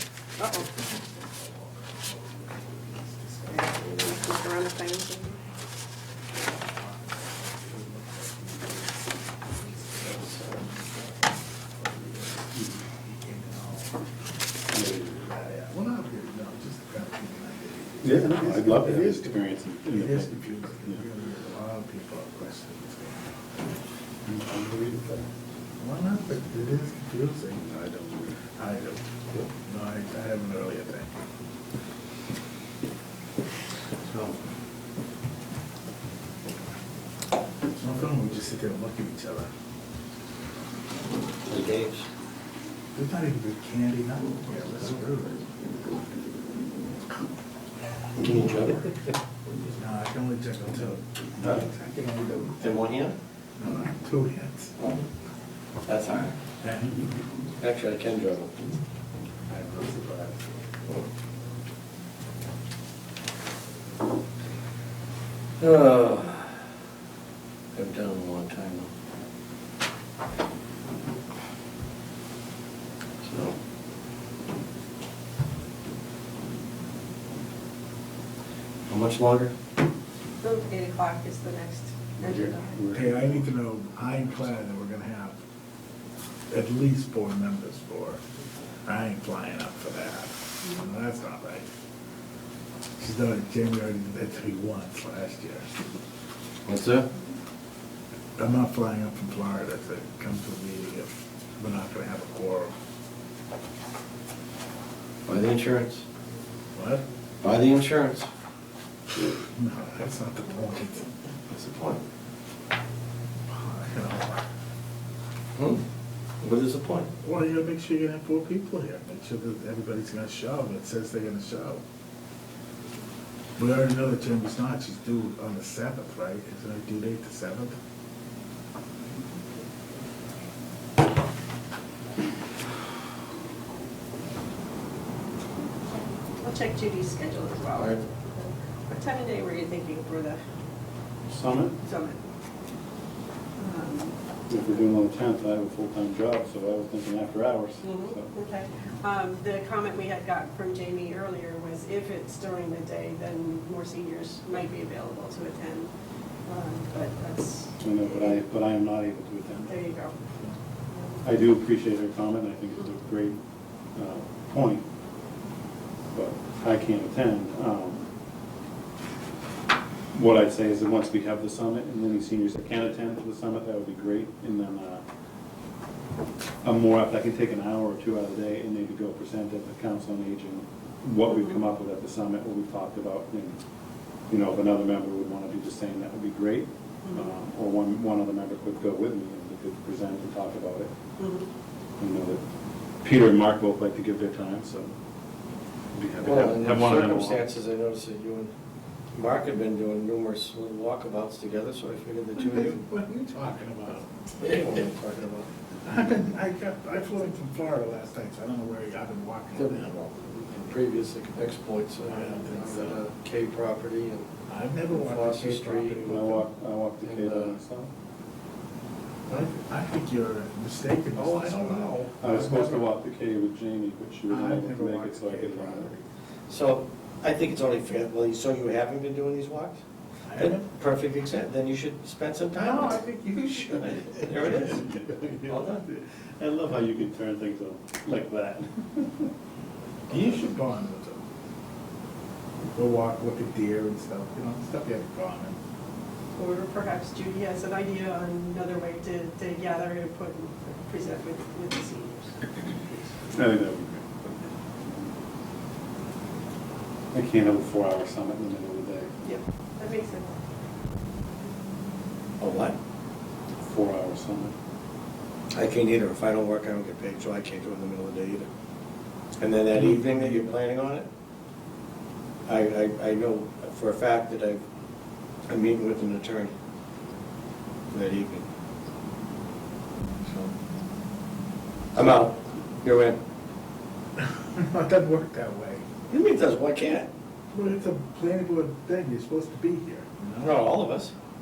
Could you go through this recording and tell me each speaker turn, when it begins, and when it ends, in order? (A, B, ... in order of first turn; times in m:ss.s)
0:00.4-0:00.7 A
0:00.6-0:04.6 B
0:03.5-0:05.4 A
0:05.4-0:14.0 B
0:10.0-0:10.6 C
0:14.7-0:15.0 D
0:14.7-0:19.4 B
0:18.0-0:21.0 D
0:19.9-0:23.3 B
0:24.3-0:25.3 D
0:25.8-0:27.7 B
0:27.6-0:28.4 D
0:28.6-0:29.0 B
0:29.6-0:31.1 B
0:34.0-0:34.4 C
0:37.7-0:39.5 B
0:41.5-0:42.1 C
0:42.9-0:45.4 B
0:48.2-0:49.1 C
0:49.7-0:52.8 B
0:52.6-0:53.2 C
0:53.6-0:54.7 B
0:55.9-0:56.4 C
0:56.6-0:57.1 B
0:57.6-0:58.5 C
0:59.5-1:00.6 B
1:05.6-1:06.7 C
1:07.8-1:08.9 C
1:13.2-1:13.6 C
1:18.9-1:19.5 C
1:20.4-1:22.8 A
1:22.2-1:23.4 D
1:22.9-1:25.4 B
1:26.5-1:28.2 B
1:28.8-1:31.7 B
1:33.0-1:35.7 B
1:36.7-1:37.1 C
1:38.4-1:42.7 B
1:45.3-1:46.0 C
1:46.8-1:47.0 B
1:47.4-1:48.3 C
1:49.5-1:51.1 B
1:51.5-1:52.0 C
1:53.5-1:54.4 B
1:55.6-1:55.8 C
1:56.4-1:57.1 C
1:57.2-2:01.8 B
2:03.6-2:07.8 B
2:16.4-2:20.4 A
2:17.8-2:18.0 C
2:21.3-2:21.8 D
2:21.8-2:22.2 A
2:23.6-2:24.2 A
2:24.5-2:28.3 D
2:27.8-2:35.9 A
2:36.5-2:38.4 A
2:37.8-2:39.9 D
2:39.7-2:40.2 A
2:40.9-2:41.2 A
2:41.2-2:43.4 D
2:44.0-2:44.8 D
2:46.1-2:48.1 D
2:50.1-2:55.0 D
2:56.6-3:03.6 D
3:01.2-3:01.6 A
3:04.3-3:10.9 D
3:07.0-3:07.3 A
3:11.2-3:11.5 A
3:12.0-3:12.4 D
3:13.0-3:15.0 D
3:15.9-3:17.5 D
3:16.2-3:18.5 C
3:19.1-3:22.9 C
3:22.4-3:24.1 B
3:24.4-3:25.5 C
3:25.8-3:30.0 B
3:29.5-3:34.3 C
3:32.1-3:33.1 B
3:34.5-3:36.5 B
3:34.9-3:36.2 C
3:36.0-3:37.9 D
3:37.0-3:37.6 C
3:39.3-3:42.7 B
3:41.1-3:42.8 C
3:42.2-3:45.9 D
3:44.3-3:46.0 B
3:46.5-3:49.8 C
3:50.3-3:50.7 B
3:50.4-3:53.0 C
3:52.6-3:54.5 B
3:53.7-3:54.9 C
3:54.5-3:59.3 D
3:55.4-3:55.9 C
4:00.1-4:00.6 D
4:00.1-4:01.2 B
4:02.7-4:05.6 B
4:06.4-4:12.4 A
4:13.3-4:14.3 D
4:17.1-4:19.1 D
4:19.2-4:20.4 A
4:22.4-4:22.8 C
4:23.6-4:24.5 D
4:25.5-4:28.5 C
4:29.4-4:31.1 C
4:32.5-4:34.6 C
4:35.5-4:36.5 C
4:37.9-4:38.5 C
4:41.9-4:43.2 C
4:44.2-4:45.9 B
4:46.1-4:47.1 C
4:47.5-4:50.6 B
4:50.4-4:51.1 C